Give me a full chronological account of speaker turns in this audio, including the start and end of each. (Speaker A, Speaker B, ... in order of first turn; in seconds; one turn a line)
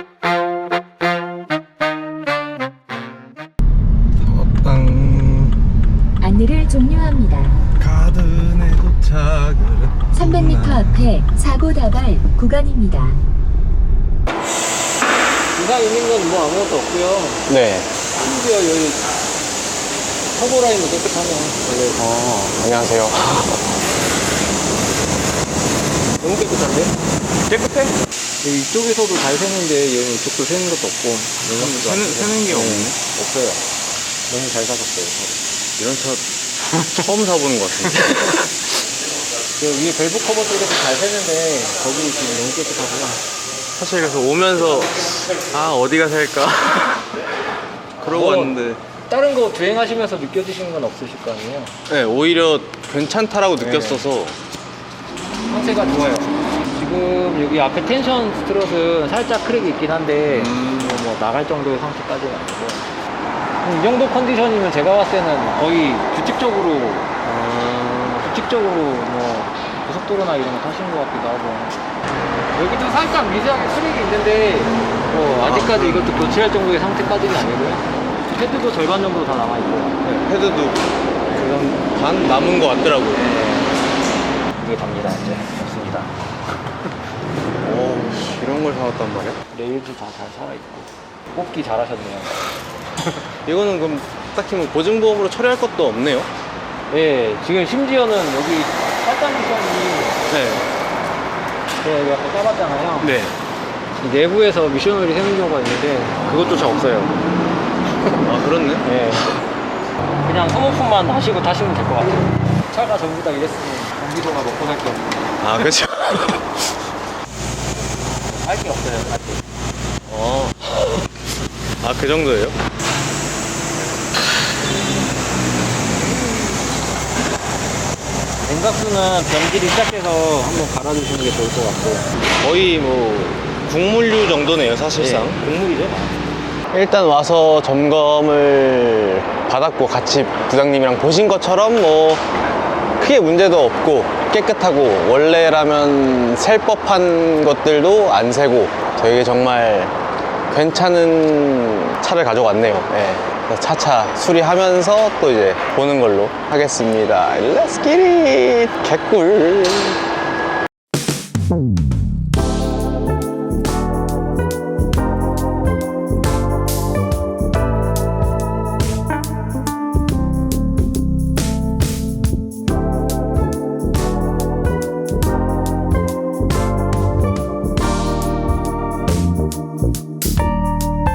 Speaker A: 4.3-5.5
Speaker B: 6.2-7.7
Speaker A: 7.8-10.8
Speaker B: 10.1-13.2
Speaker C: 15.5-17.5
Speaker A: 17.5-17.9
Speaker C: 18.2-19.1
Speaker C: 20.3-22.1
Speaker A: 22.1-23.6
Speaker C: 26.2-26.9
Speaker C: 27.5-33.6
Speaker A: 31.5-33.0
Speaker C: 34.3-35.4
Speaker A: 35.8-36.2
Speaker A: 36.8-38.5
Speaker C: 37.9-38.2
Speaker C: 39.6-43.2
Speaker A: 43.8-47.2
Speaker A: 48.0-48.8
Speaker C: 48.1-51.7
Speaker A: 51.9-54.4
Speaker C: 53.6-54.0
Speaker C: 55.5-62.8
Speaker A: 60.3-61.0
Speaker C: 63.6-67.2
Speaker A: 67.2-68.3
Speaker C: 68.0-71.8
Speaker C: 72.5-80.0
Speaker A: 75.5-76.2
Speaker A: 80.0-80.8
Speaker A: 81.3-83.2
Speaker C: 83.1-83.8
Speaker C: 84.6-86.1
Speaker A: 87.6-89.4
Speaker C: 89.5-92.4
Speaker A: 93.5-96.3
Speaker C: 96.9-100.2
Speaker A: 100.3-100.6
Speaker C: 101.8-103.2
Speaker A: 103.0-103.3
Speaker C: 104.0-107.2
Speaker A: 108.2-108.9
Speaker C: 108.8-109.3
Speaker C: 110.2-115.7
Speaker A: 115.4-116.5
Speaker C: 118.2-119.4
Speaker A: 120.1-120.8
Speaker A: 121.8-122.5
Speaker C: 128.4-132.1
Speaker A: 132.4-135.4
Speaker C: 134.9-136.2
Speaker A: 136.7-142.2
Speaker A: 143.0-149.9
Speaker A: 150.5-160.0